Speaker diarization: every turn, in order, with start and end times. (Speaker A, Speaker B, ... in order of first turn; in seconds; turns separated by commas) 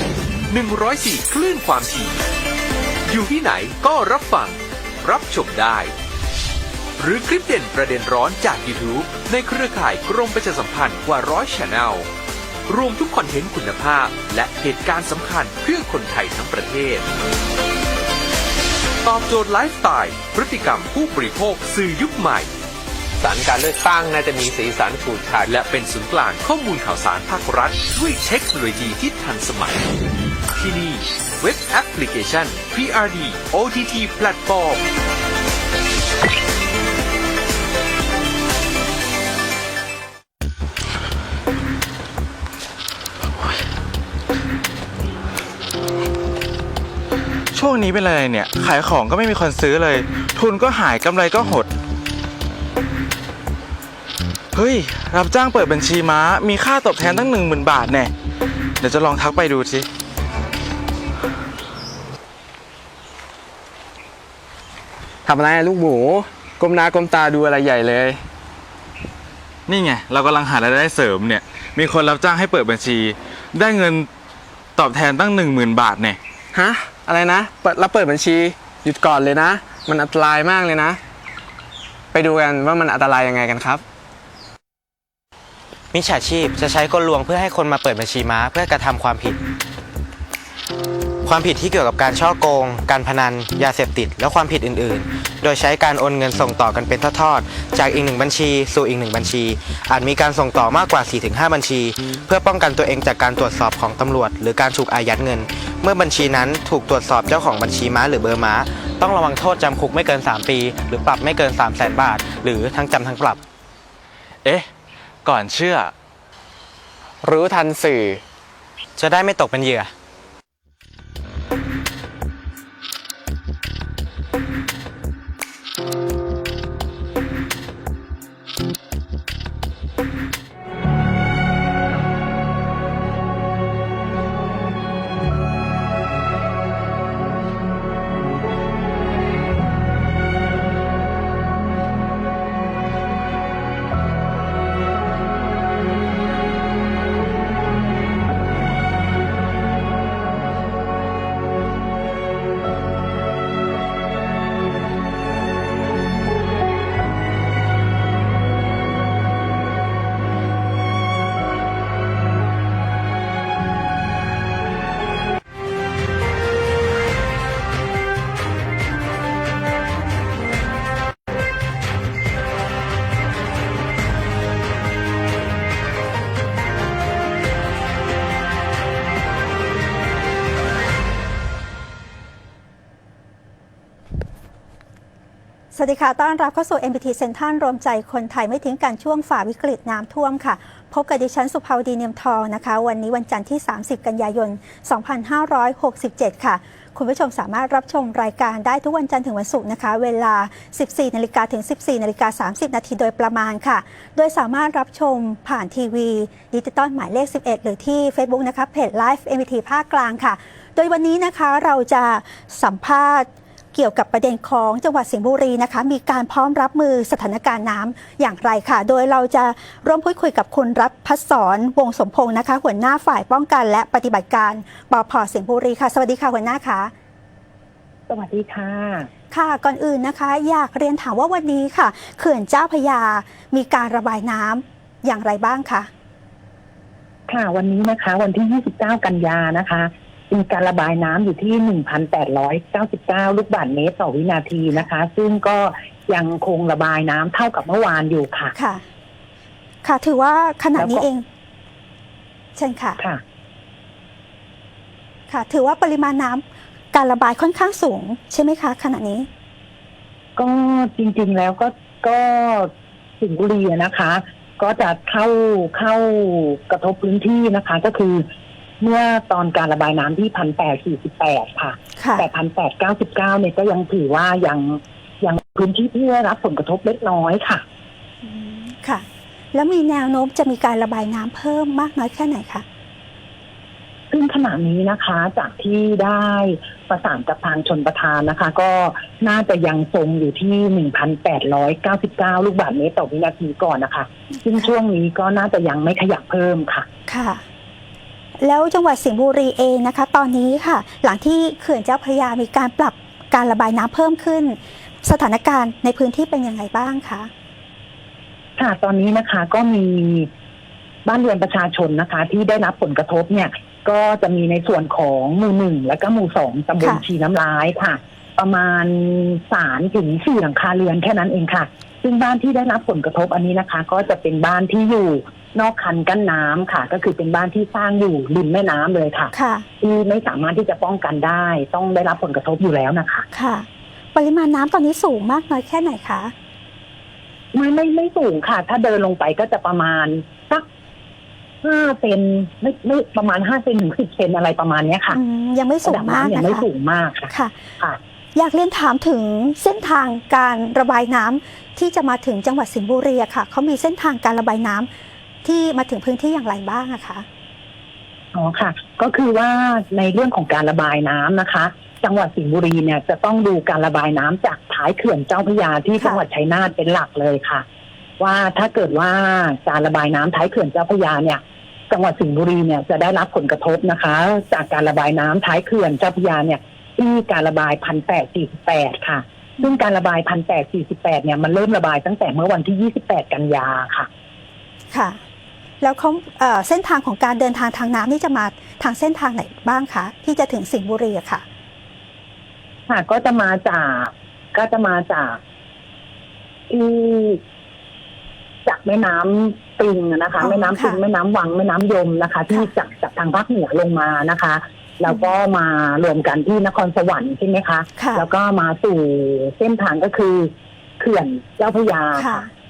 Speaker A: 0.5-2.2, Speaker A: 3.1-5.9, Speaker A: 7.0-12.1, Speaker A: 12.7-17.1, Speaker A: 19.0-22.5, Speaker B: 23.2-25.4, Speaker A: 25.4-29.9, Speaker A: 30.5-34.8, Speaker C: 47.5-51.7, Speaker C: 54.5-58.1, Speaker C: 58.8-59.9, Speaker D: 65.2-68.2, Speaker C: 69.7-74.1, Speaker C: 74.8-76.2, Speaker D: 76.5-81.0, Speaker D: 82.1-83.8, Speaker E: 85.9-89.4, Speaker E: 91.2-113.4, Speaker C: 114.4-114.7, Speaker C: 115.2-115.9, Speaker D: 117.2-118.2, Speaker E: 119.0-119.9, Speaker F: 185.7-226.9, Speaker G: 228.1-229.1, Speaker F: 229.3-235.9, Speaker G: 237.3-248.5, Speaker F: 248.5-248.8, Speaker F: 249.8-251.2, Speaker G: 250.8-251.0, Speaker F: 252.6-253.0, Speaker F: 255.3-259.3, Speaker G: 260.4-268.2, Speaker G: 268.8-277.6, Speaker F: 272.0-272.2, Speaker F: 278.2-282.6, Speaker G: 284.1-296.9, Speaker F: 297.1-297.4, Speaker F: 298.4-307.3, Speaker G: 308.6-310.3, Speaker G: 311.0-333.2, Speaker F: 329.3-329.6, Speaker F: 333.3-336.3, Speaker G: 337.5-340.6, Speaker G: 341.6-345.2, Speaker F: 345.1-346.6, Speaker G: 345.8-348.0, Speaker F: 347.3-347.6, Speaker F: 348.3-354.9, Speaker F: 355.4-357.2, Speaker G: 358.3-367.6, Speaker G: 368.2-384.1, Speaker F: 384.9-385.2, Speaker F: 385.8-391.4, Speaker G: 392.9-395.4, Speaker G: 396.7-397.4, Speaker G: 398.6-412.4, Speaker F: 400.4-401.0, Speaker F: 408.0-408.2, Speaker F: 412.2-412.5